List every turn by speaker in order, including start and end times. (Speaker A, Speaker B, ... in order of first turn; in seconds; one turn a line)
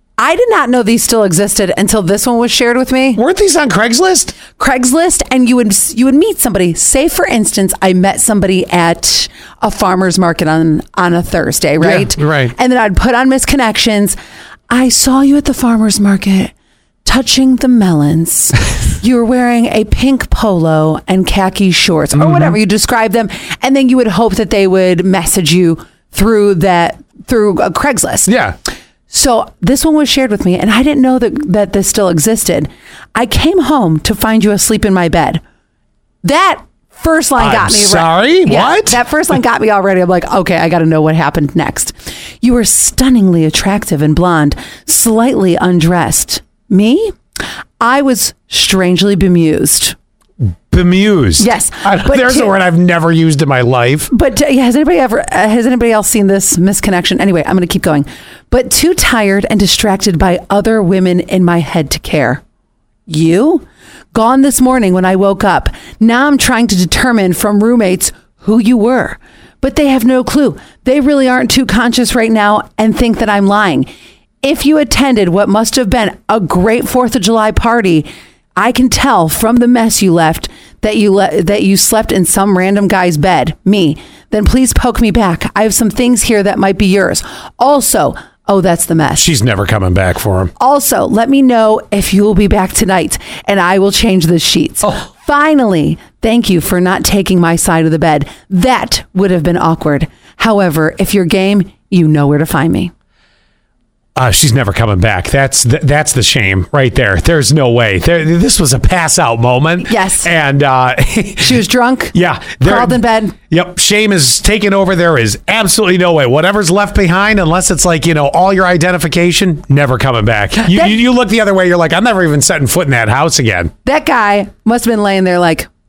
Speaker A: 0.2-3.2
Speaker B: 3.1-4.4
Speaker A: 4.5-14.2
Speaker B: 11.8-12.5
Speaker A: 14.7-16.5
Speaker A: 17.0-28.3
Speaker B: 22.1-22.6
Speaker B: 28.3-28.5
Speaker A: 29.1-35.4
Speaker A: 36.2-47.1
Speaker B: 37.4-39.0
Speaker A: 47.8-49.9
Speaker B: 50.7-54.1
Speaker A: 51.4-52.5
Speaker A: 54.1-62.4
Speaker A: 63.1-73.9
Speaker A: 74.4-89.2
Speaker B: 89.2-90.5
Speaker A: 90.6-102.9
Speaker B: 104.2-111.6
Speaker A: 109.9-110.3
Speaker A: 111.4-113.3
Speaker B: 112.1-123.7
Speaker A: 120.7-120.9
Speaker A: 123.8-125.7